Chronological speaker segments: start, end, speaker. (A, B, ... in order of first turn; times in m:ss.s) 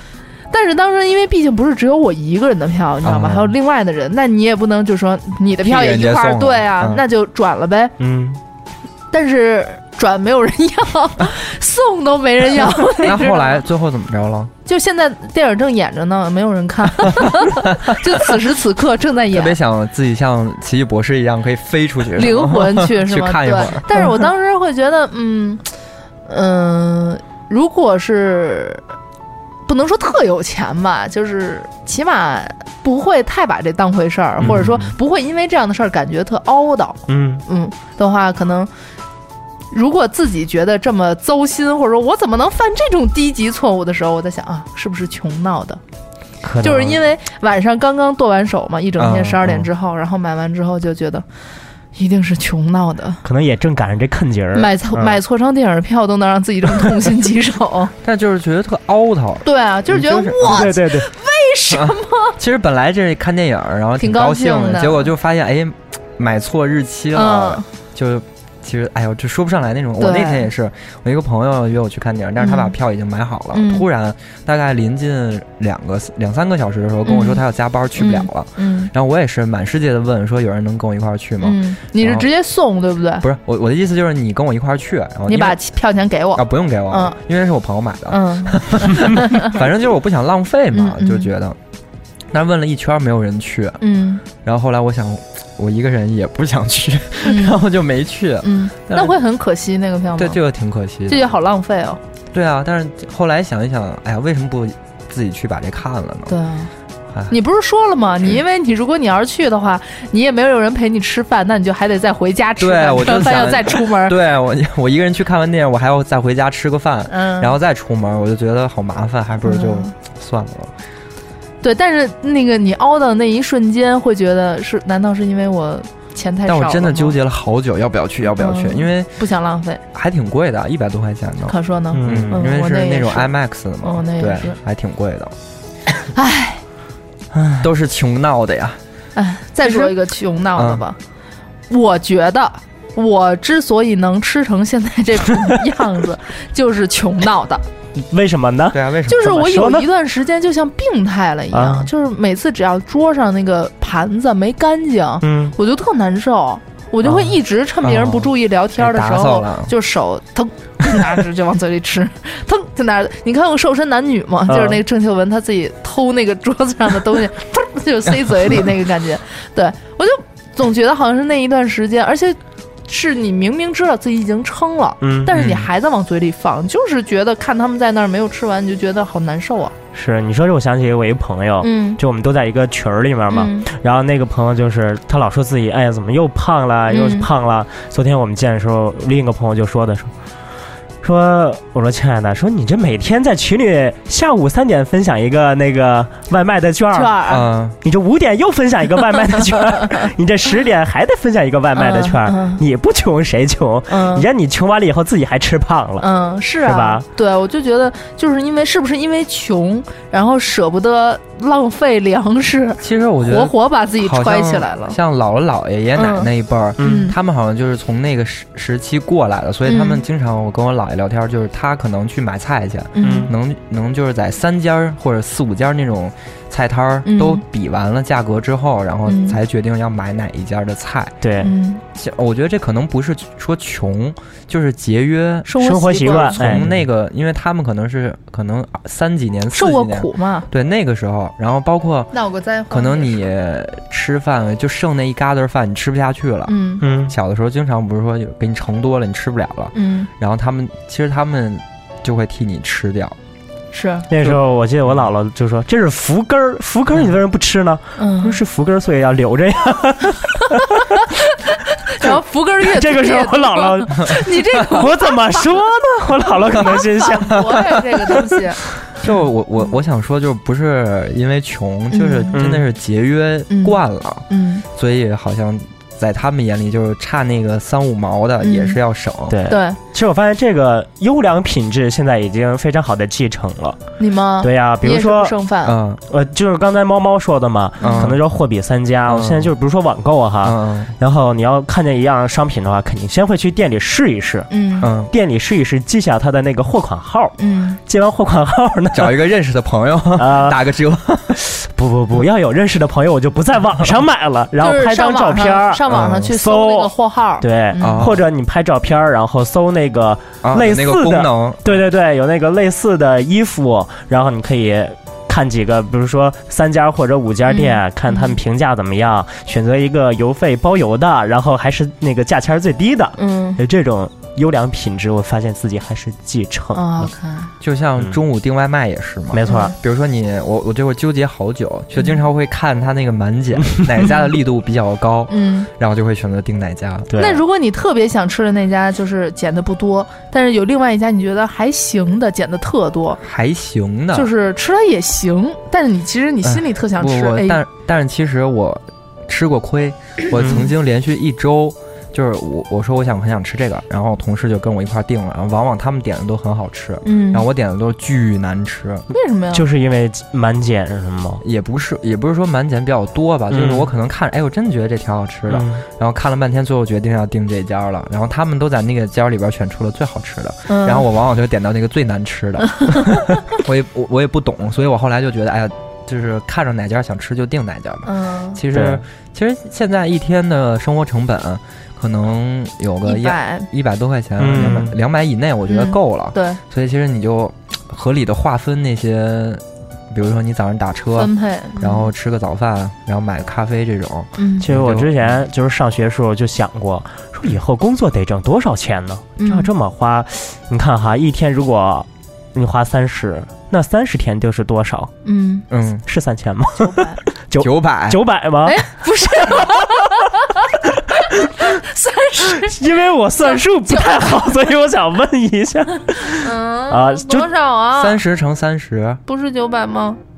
0:00.5-0:08.0 A
0:03.0-0:03.5 B
0:05.6-0:07.0 B
0:08.0-0:08.4 C
0:09.1-0:13.6 A
0:12.9-0:14.5 B
0:14.7-0:19.6 A
0:19.3-0:24.1 B
0:22.2-0:25.6 A
0:26.3-0:28.8 A
0:29.7-0:38.7 A
0:34.4-0:34.9 B
0:37.1-0:37.4 C
0:39.7-0:45.8 A
0:46.4-0:47.0 C
0:46.6-0:51.2 A
0:49.0-0:49.6 B
0:52.0-0:53.2 A
0:53.2-0:55.2 C
0:54.6-0:57.9 A
0:58.0-1:00.7 B
0:59.4-1:02.4 A
1:00.5-1:01.1 C
1:01.7-1:22.3 B
1:04.0-1:05.1 A
1:07.1-1:07.6 A
1:10.0-1:10.5 A
1:12.4-1:12.8 A
1:13.5-1:13.8 A
1:17.0-1:17.4 A
1:18.0-1:18.9 A
1:21.4-1:23.2 A
1:23.2-1:25.6 B
1:25.3-1:27.2 A
1:26.4-1:31.6 B
1:28.1-1:29.6 A
1:30.7-1:31.3 A
1:32.3-1:33.8 B
1:33.8-1:34.2 A
1:34.4-1:39.2 B
1:37.2-1:37.6 A
1:38.4-1:40.4 A
1:40.2-1:41.4 B
1:41.1-1:42.0 A
1:42.3-1:46.4 B
1:46.3-1:46.7 A
1:47.3-1:54.2 A
1:52.6-2:00.7 B
1:57.1-1:57.6 A
1:59.4-1:59.9 A
2:01.6-2:07.2 A
2:06.5-2:09.1 B
2:08.4-2:09.8 A
2:09.9-2:15.3 B
2:11.5-2:14.6 A
2:11.9-2:12.4 C
2:16.1-2:16.6 A
2:17.3-2:17.7 C
2:17.6-2:18.8 B
2:19.2-2:21.0 A
2:20.6-2:20.8 B
2:21.7-2:27.6 A
2:28.0-2:29.9 C
2:28.7-2:29.4 B
2:29.1-2:59.7 A
2:31.5-2:31.9 C
2:35.2-2:35.5 C
2:37.1-2:37.3 C
2:37.8-2:38.3 B
2:38.8-2:39.7 B
2:44.5-2:44.8 C
2:55.0-2:55.3 C
2:55.3-2:55.7 B
2:59.9-3:10.1 C
3:01.6-3:02.0 A
3:03.3-3:03.7 A
3:06.9-3:07.3 A
3:11.0-3:17.2 C
3:16.9-3:17.4 A
3:17.3-3:17.8 B
3:17.8-3:26.1 C
3:21.8-3:22.6 A
3:23.9-3:24.3 A
3:26.0-3:35.0 A
3:26.6-3:27.0 C
3:32.8-3:51.2 B
3:36.0-3:37.2 A
3:36.8-3:37.1 C
3:39.7-3:40.0 A
3:43.0-3:43.3 A
3:43.0-3:43.3 C
3:47.0-3:47.4 A
3:49.1-3:49.4 A
3:51.2-3:51.5 C
3:51.4-3:51.8 A
3:52.0-4:02.1 B
3:55.5-3:56.6 A
3:55.6-3:56.8 C
3:59.5-4:00.5 A
4:02.1-4:03.2 A
4:02.7-4:13.2 B
4:06.5-4:06.8 A
4:06.8-4:07.2 C
4:09.7-4:10.1 A
4:13.7-4:14.1 A
4:14.1-4:20.7 C
4:14.2-4:15.1 B
4:18.0-4:18.4 A
4:20.8-4:21.1 A
4:21.8-4:28.6 A
4:22.7-4:28.2 C
4:29.0-4:39.4 B
4:31.9-4:32.4 A
4:32.3-4:32.7 C
4:33.5-4:33.8 A
4:34.3-4:34.6 A
4:38.4-4:38.8 A
4:39.3-4:43.8 C
4:39.5-4:39.8 A
4:44.0-4:45.8 A
4:44.4-4:45.4 C
4:45.6-4:46.0 B
4:46.1-4:54.5 C
4:47.8-4:48.1 A
4:47.8-4:48.2 B
4:49.1-4:49.5 B
4:50.4-4:50.9 B
4:54.5-4:54.9 A
4:54.8-4:55.1 B
4:55.1-4:57.4 C
4:57.4-4:57.8 A
4:57.9-4:59.2 C
4:58.9-5:01.4 B
5:00.2-5:00.6 C
5:01.4-5:27.1 C
5:04.6-5:08.1 A
5:05.9-5:06.3 B
5:07.8-5:08.2 B
5:10.4-5:11.8 B
5:17.5-5:18.4 A
5:23.2-5:23.6 A
5:26.7-5:27.5 A
5:27.6-5:37.1 B
5:29.3-5:29.7 C
5:29.5-5:29.7 A
5:35.3-5:35.7 A
5:37.1-5:37.4 C
5:37.2-5:43.2 A
5:43.2-5:44.3 B
5:44.1-5:47.6 A
5:46.4-5:59.0 B
5:57.0-5:57.5 A
5:59.1-5:59.6 A
5:59.5-6:01.4 C
6:01.4-6:35.4 B
6:03.5-6:03.9 C
6:05.5-6:05.8 C
6:10.7-6:11.1 A
6:18.0-6:18.6 A
6:18.7-6:19.0 C
6:23.0-6:23.7 A
6:24.4-6:25.0 C
6:25.7-6:26.6 A
6:31.2-6:32.1 A
6:34.4-6:34.7 A
6:34.6-6:45.1 C
6:39.4-6:39.7 A
6:45.2-6:45.6 A
6:45.7-6:46.0 B
6:46.1-6:47.0 C
6:46.8-6:47.2 A
6:47.5-6:48.8 C
6:47.6-6:48.2 B
6:48.7-6:50.4 A
6:49.4-6:49.8 C
6:51.3-6:52.8 A
6:52.6-6:57.5 C
6:53.4-6:54.5 A
6:56.3-6:58.2 A
6:58.0-6:59.2 B
6:59.3-7:00.2 A